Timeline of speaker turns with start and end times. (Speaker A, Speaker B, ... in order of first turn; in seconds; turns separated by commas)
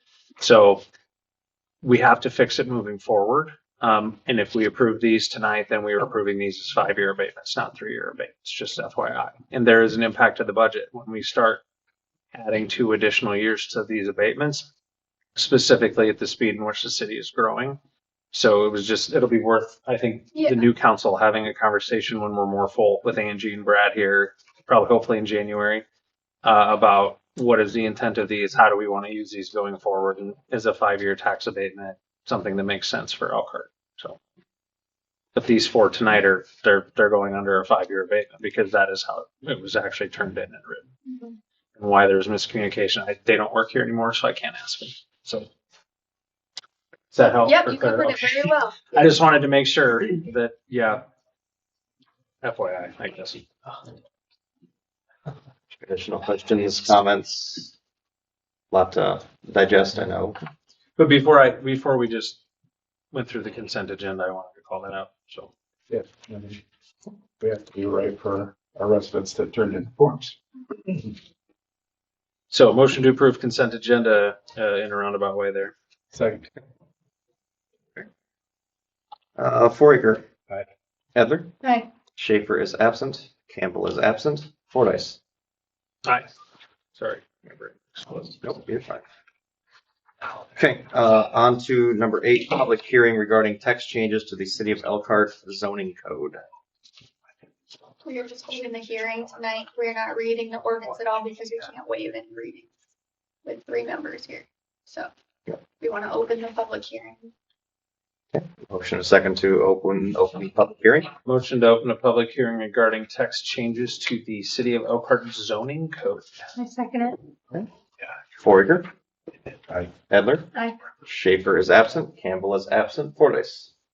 Speaker A: 0.4-0.8, Speaker A: 1.8-11.6, Speaker A: 12.3-14.7, Speaker A: 15.3-17.8, Speaker A: 18.3-25.9, Speaker A: 26.4-34.2, Speaker A: 35.3-40.9, Speaker B: 41.1-41.4, Speaker A: 41.8-45.5, Speaker A: 47.1-51.0, Speaker B: 47.4-49.0, Speaker A: 52.4-53.8, Speaker C: 55.8-57.7, Speaker C: 58.7-60.4, Speaker A: 61.0-62.4, Speaker A: 63.1-65.5, Speaker D: 65.9-66.6, Speaker D: 67.4-70.3, Speaker A: 72.5-75.7, Speaker D: 76.1-76.5, Speaker C: 79.4-80.2, Speaker C: 81.1-81.5, Speaker C: 82.2-85.2, Speaker A: 86.0-86.3, Speaker A: 87.0-88.4, Speaker C: 88.4-89.0, Speaker C: 90.5-96.4, Speaker B: 98.0-102.7, Speaker B: 103.4-105.1, Speaker B: 105.8-107.3, Speaker C: 108.3-111.1, Speaker A: 111.2-116.3, Speaker B: 116.6-117.2, Speaker C: 118.4-118.9, Speaker C: 120.1-120.5, Speaker C: 121.0-123.7